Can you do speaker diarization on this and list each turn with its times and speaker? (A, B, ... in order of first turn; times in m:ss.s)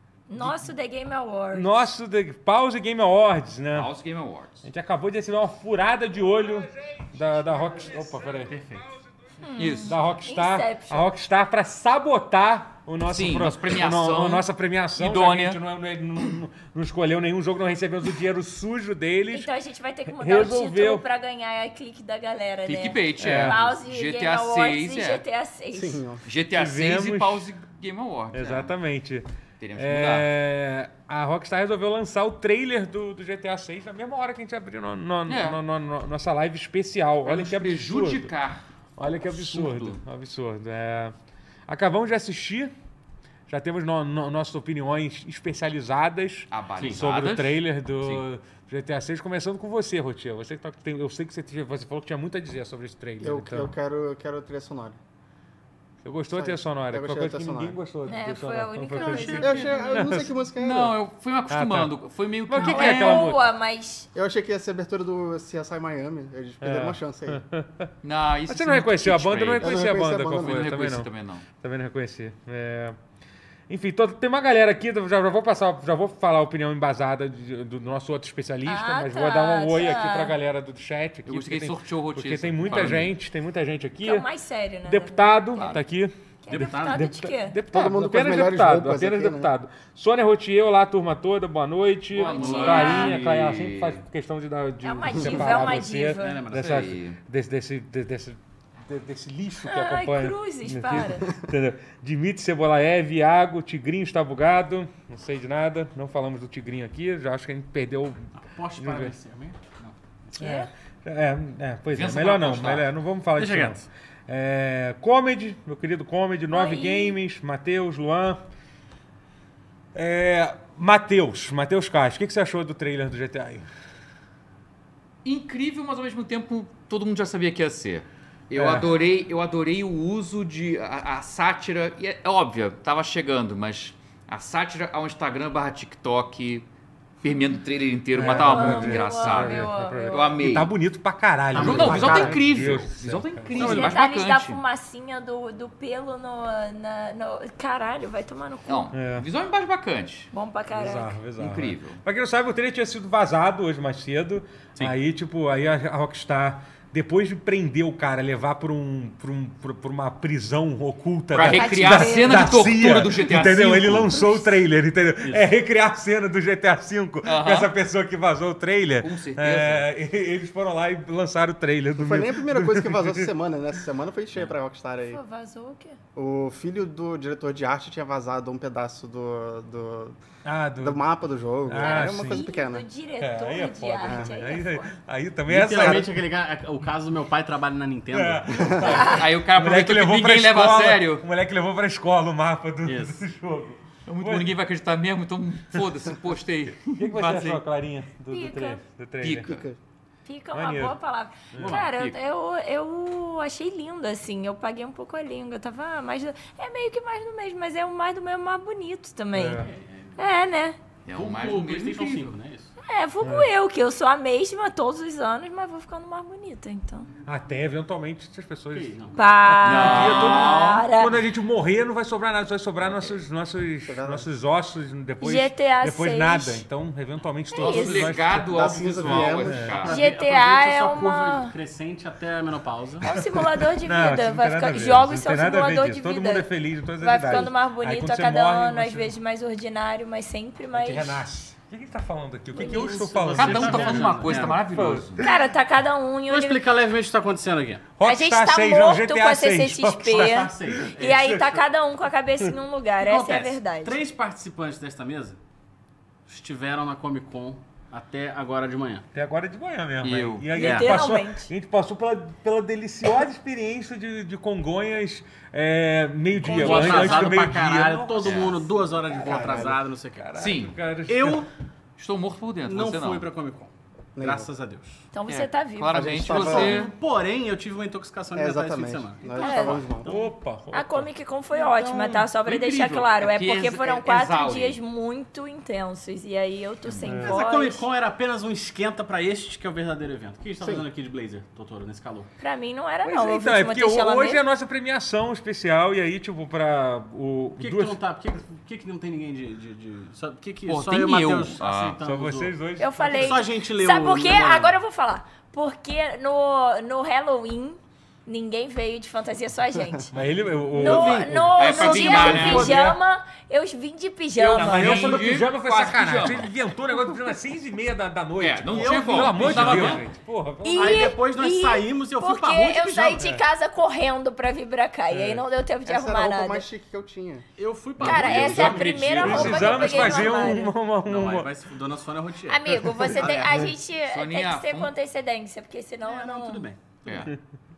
0:00.3-0:01.9 A
0:01.5-0:03.9 B
0:03.7-0:04.7 C
0:04.6-0:08.8 B
0:09.4-0:11.1 A
0:09.6-0:10.0 C
0:09.7-0:19.5 B
0:13.0-0:15.6 C
0:19.3-0:26.0 A
0:20.1-0:21.0 B
0:22.7-0:25.2 C
0:23.2-0:23.6 B
0:25.7-0:26.2 D
0:26.2-0:28.7 C
0:26.5-0:27.5 B
0:28.3-0:38.3 B
0:29.6-0:30.3 C
0:35.3-0:35.6 C
0:37.3-0:38.6 C
0:39.0-0:41.2 B
0:39.2-0:40.0 C
0:41.7-0:42.7 B
0:43.5-0:53.7 B
0:46.5-0:48.2 C
0:53.2-0:55.0 D
0:56.0-1:00.4 B
0:56.3-0:57.8 D
0:58.1-0:59.8 A
0:59.0-0:59.9 E
0:59.3-1:01.0 D
1:00.6-1:03.3 C
1:01.5-1:01.9 B
1:02.5-1:03.4 B
1:02.6-1:04.1 A
1:04.1-1:07.4 D
1:06.6-1:07.9 B
1:08.0-1:11.5 C
1:08.5-1:11.1 B
1:09.6-1:10.6 D
1:11.6-1:13.0 B
1:13.7-1:24.3 B
1:18.7-1:20.3 A
1:21.3-1:23.1 C
1:22.7-1:23.0 E
1:24.0-1:25.8 A
1:24.9-1:49.2 B
1:26.4-1:27.6 A
1:26.5-1:27.1 E
1:27.7-1:29.5 D
1:32.2-1:34.0 C
1:32.3-1:33.1 E
1:32.4-1:33.1 A
1:34.8-1:36.4 A
1:36.1-1:36.8 E
1:36.5-1:37.2 C
1:39.7-1:41.3 A
1:48.4-1:50.0 E
1:50.4-1:50.7 A
1:50.4-1:58.4 B
1:51.9-1:52.9 C
1:53.4-1:53.9 E
1:56.5-1:57.2 A
1:59.9-2:03.7 B
2:05.2-2:16.7 C
2:08.6-2:08.9 B
2:17.2-2:20.7 C
2:18.1-2:23.9 B
2:18.2-2:20.4 A
2:21.5-2:24.6 C
2:21.6-2:22.7 D
2:23.6-2:24.0 E
2:23.6-2:28.9 A
2:28.7-2:30.3 C
2:28.9-2:29.3 B
2:30.3-2:31.2 A
2:30.7-2:53.3 B
2:31.4-2:32.0 C
2:41.3-2:44.2 C
2:41.5-2:42.7 A
2:44.1-2:44.4 A
2:45.2-2:45.5 E
2:47.2-2:47.7 C
2:49.0-2:49.9 C
2:52.0-2:55.2 D
2:55.1-2:56.0 A
2:56.2-3:00.2 D
3:00.4-3:01.0 B
3:00.8-3:02.9 D
3:01.6-3:02.4 B
3:01.8-3:04.9 A
3:03.2-3:06.1 B
3:04.0-3:04.3 D
3:05.5-3:08.9 E
3:08.1-3:14.5 B
3:08.5-3:09.0 D
3:08.8-3:11.2 C
3:12.8-3:13.2 E
3:14.1-3:17.6 C
3:17.0-3:19.5 B
3:18.3-3:18.8 A
3:19.2-3:19.6 C
3:19.5-3:19.8 D
3:20.2-3:29.6 A
3:20.5-3:21.0 B
3:21.5-3:21.8 B
3:21.6-3:22.2 E
3:29.4-3:29.7 B
3:29.5-3:30.2 E
3:30.2-3:30.8 A
3:31.0-3:32.4 C
3:31.1-3:32.7 E
3:32.8-3:37.1 A
3:33.2-3:33.5 B
3:37.2-3:49.8 B
3:38.7-3:39.2 E
3:39.2-3:41.2 A
3:39.6-3:40.9 C
3:43.9-3:44.3 D
3:45.2-3:46.6 A
3:47.5-3:48.1 A
3:47.6-3:50.0 C
3:48.4-3:49.8 D
3:49.2-3:53.1 E
3:49.9-3:51.5 A
3:53.0-4:01.2 A
3:53.8-3:59.1 B
4:00.7-4:05.4 B
4:02.5-4:04.6 E
4:02.6-4:02.9 A
4:03.3-4:05.3 C
4:05.2-4:06.7 A
4:06.3-4:07.9 E
4:08.0-4:11.6 B
4:08.0-4:14.0 A
4:10.1-4:11.3 E
4:13.0-4:15.4 E
4:16.3-4:19.1 E
4:19.1-4:31.5 B
4:20.0-4:20.5 C
4:20.5-4:21.5 A
4:20.6-4:21.0 E
4:26.4-4:30.4 E
4:26.5-4:27.3 D
4:28.2-4:28.6 C
4:29.1-4:29.8 D
4:30.4-4:30.7 C
4:31.1-4:31.5 E
4:32.0-4:33.3 C
4:32.6-4:35.1 E
4:34.2-4:34.5 D
4:35.1-4:36.2 A
4:35.3-4:36.9 C
4:35.9-4:36.9 D
4:36.3-4:40.2 E
4:38.3-4:40.2 D
4:39.3-4:39.8 A
4:40.0-4:41.1 B
4:40.7-4:47.9 A
4:41.8-4:42.1 E
4:42.4-4:44.8 C
4:47.0-4:47.4 B
4:47.0-4:52.3 E
4:50.6-4:50.9 D
4:52.4-4:54.4 A
4:53.0-4:58.0 B
4:57.6-5:04.8 E
5:00.7-5:02.0 C
5:02.0-5:03.4 B
5:02.8-5:10.1 A
5:10.1-5:13.0 B
5:10.7-5:14.9 A
5:10.7-5:12.9 E
5:11.6-5:12.8 C
5:14.4-5:16.5 C
5:14.4-5:15.3 E
5:14.6-5:21.2 B
5:18.4-5:20.0 C
5:18.7-5:20.0 E
5:20.6-5:26.7 A
5:20.8-5:23.3 E
5:25.1-5:25.4 B
5:25.9-5:27.5 D
5:27.6-5:33.5 E
5:28.0-5:31.5 B
5:28.0-5:30.7 A
5:28.4-5:29.7 C
5:32.5-5:36.7 A
5:34.1-5:34.9 C
5:36.1-5:37.3 E
5:37.0-5:37.3 C